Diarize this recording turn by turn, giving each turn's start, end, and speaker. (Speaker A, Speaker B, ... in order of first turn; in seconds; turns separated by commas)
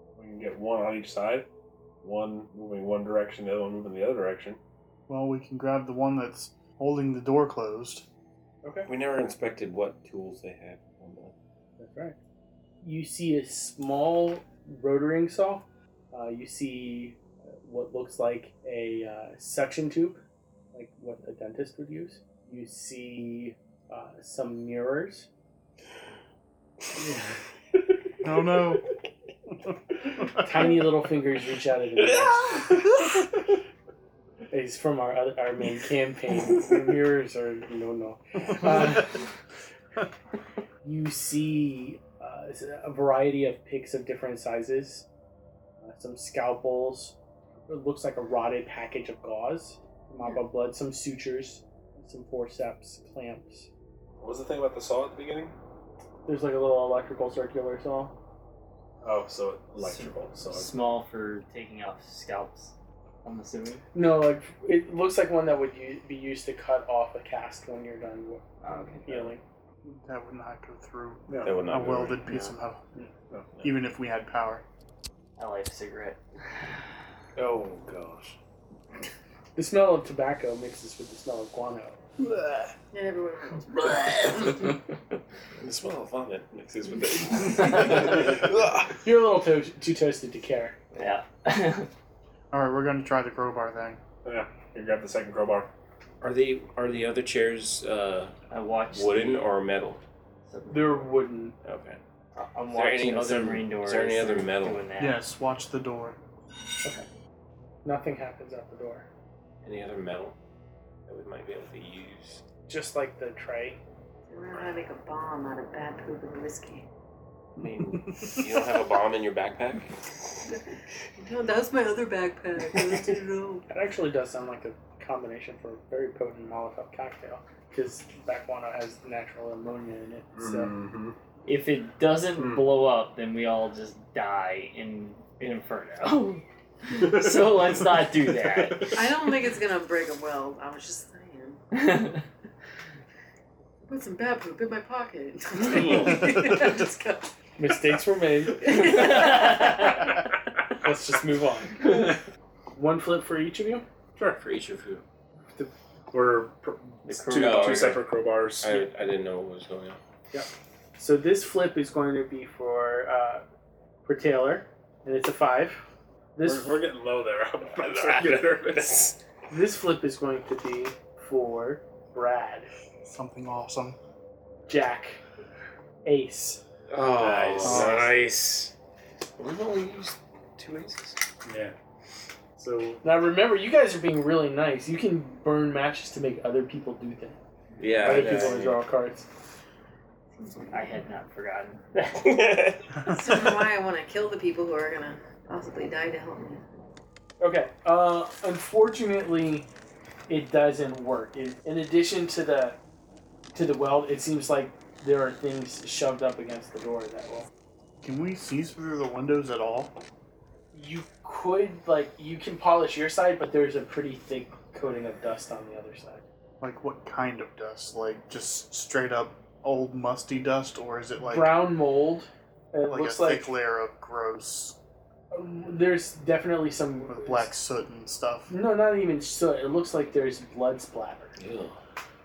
Speaker A: 0.1-1.5, Speaker A: 2.0-4.6, Speaker B: 5.1-8.1, Speaker C: 8.9-11.3, Speaker D: 11.8-12.2, Speaker D: 12.8-20.2, Speaker D: 20.7-25.3, Speaker B: 28.2-28.8, Speaker D: 30.4-32.6, Speaker D: 34.5-39.2, Speaker D: 40.8-45.0, Speaker D: 45.8-47.1, Speaker D: 47.7-53.7, Speaker A: 54.2-55.5, Speaker D: 56.2-58.1, Speaker A: 59.0-60.7, Speaker E: 59.8-63.8, Speaker D: 63.9-68.5, Speaker E: 68.6-69.3, Speaker D: 69.0-69.4, Speaker B: 69.8-72.8, Speaker C: 71.4-72.3, Speaker E: 72.3-72.5, Speaker A: 73.3-73.5, Speaker B: 73.6-74.6, Speaker E: 75.4-76.8, Speaker A: 77.3-78.3, Speaker D: 79.5-82.0, Speaker F: 82.9-84.7, Speaker C: 85.6-89.0, Speaker A: 87.1-88.3, Speaker D: 89.0-90.8, Speaker E: 90.9-91.9, Speaker B: 92.5-94.0, Speaker A: 94.2-95.7, Speaker C: 96.2-98.3, Speaker E: 98.5-99.5, Speaker C: 98.9-100.0, Speaker E: 100.5-101.1, Speaker D: 100.7-101.5, Speaker C: 101.6-102.0, Speaker E: 102.3-105.2, Speaker C: 102.7-104.9, Speaker B: 105.0-106.2, Speaker D: 107.8-109.1, Speaker C: 109.6-110.4, Speaker C: 111.1-112.4, Speaker D: 112.7-113.8, Speaker F: 114.3-116.9, Speaker B: 117.6-118.5, Speaker C: 117.6-120.0, Speaker F: 121.2-123.6, Speaker D: 123.7-130.7, Speaker A: 130.3-131.2, Speaker E: 131.4-139.0, Speaker A: 132.3-132.7, Speaker A: 136.9-139.0, Speaker F: 138.9-141.6, Speaker E: 141.7-142.2, Speaker F: 143.8-147.3, Speaker A: 145.6-146.4, Speaker D: 147.6-149.1, Speaker E: 148.6-150.1, Speaker F: 148.7-149.7, Speaker A: 148.7-149.2, Speaker D: 150.8-152.2, Speaker D: 152.7-153.8, Speaker C: 154.3-155.0, Speaker A: 156.1-158.9, Speaker E: 157.0-158.0, Speaker C: 157.3-160.0, Speaker D: 160.3-163.4, Speaker D: 164.0-165.8, Speaker D: 166.3-166.8, Speaker A: 166.4-169.1, Speaker C: 167.8-169.1, Speaker D: 169.5-172.7, Speaker B: 173.0-174.0, Speaker D: 174.7-175.2, Speaker D: 176.0-176.6, Speaker C: 176.9-178.7, Speaker A: 177.2-178.1, Speaker B: 177.6-178.1, Speaker C: 179.4-181.2, Speaker A: 181.4-181.7, Speaker A: 182.6-183.0, Speaker D: 183.0-187.4, Speaker C: 187.8-188.8, Speaker D: 188.0-189.3, Speaker F: 190.4-190.9, Speaker E: 190.7-192.5, Speaker C: 192.2-192.9, Speaker F: 193.0-196.6, Speaker B: 193.1-193.4, Speaker D: 197.4-199.7, Speaker D: 200.3-202.8, Speaker D: 203.5-207.5, Speaker B: 208.0-209.9, Speaker D: 210.7-216.2, Speaker B: 216.6-221.7, Speaker D: 221.3-223.5, Speaker B: 222.9-224.8, Speaker D: 225.3-227.5, Speaker B: 227.1-228.5, Speaker D: 228.5-231.4, Speaker C: 231.4-231.8